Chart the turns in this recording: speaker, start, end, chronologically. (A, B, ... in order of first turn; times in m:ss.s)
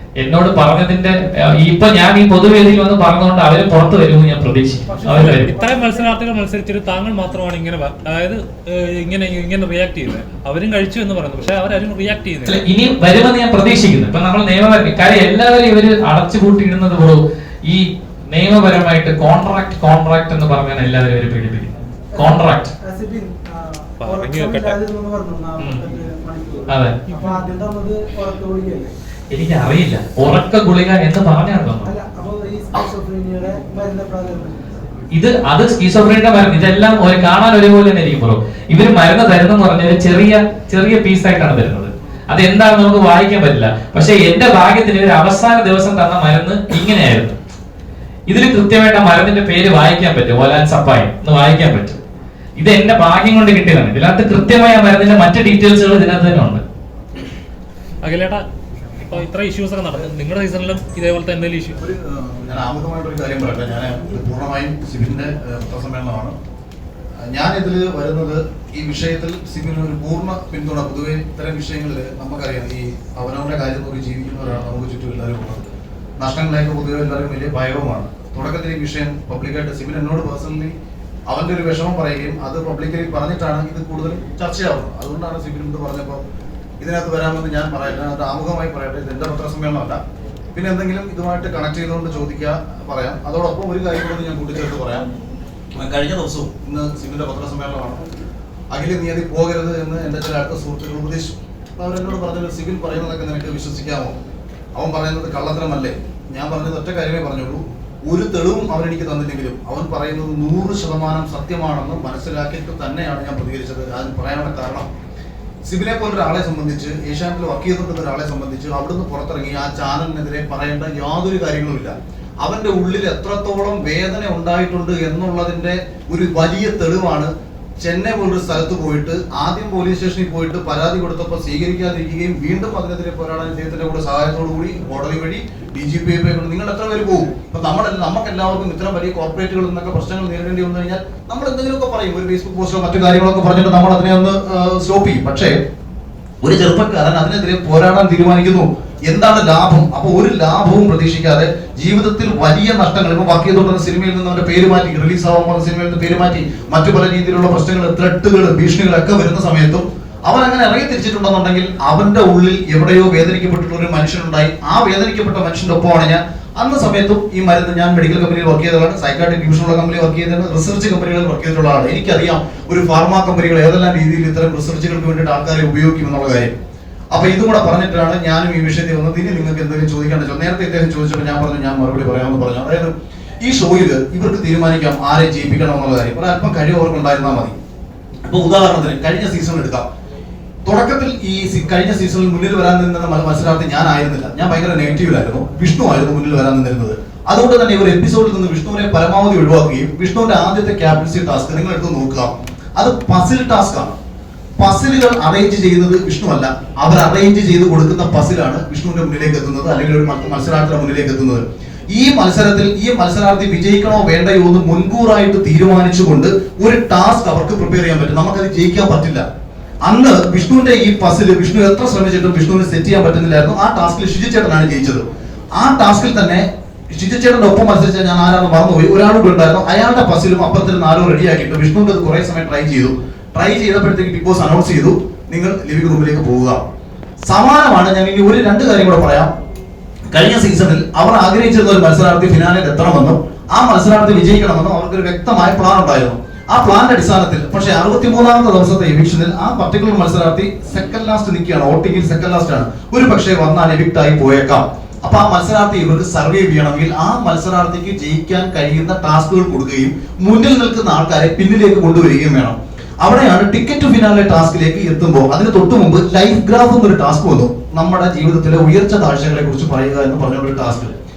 0:00.2-0:05.5 A
0:04.9-0:06.2 B
0:05.1-0:12.6 C
0:12.4-0:22.7 A
0:22.1-0:28.9 B
0:24.0-0:24.8 C
0:26.7-0:26.9 A
0:27.2-0:27.4 C
0:29.3-0:31.9 A
0:31.8-0:34.7 B
0:35.1-0:47.4 A
0:48.3-0:52.0 A
0:52.6-0:56.6 A
0:58.0-0:58.4 C
0:59.0-1:01.8 C
1:01.8-1:06.3 D
1:07.2-1:20.7 D
1:21.3-1:26.2 D
1:26.8-1:30.0 D
1:30.5-1:35.1 D
1:35.7-1:38.0 D
1:38.7-1:44.2 D
1:44.7-1:54.9 D
1:55.6-2:25.6 D
2:26.4-2:56.5 D
2:57.1-3:07.6 D
3:08.2-3:09.8 D
3:10.6-3:24.0 D
3:24.6-3:39.2 D
3:39.8-3:56.6 D
3:57.2-3:59.3 D
4:00.1-4:31.0 D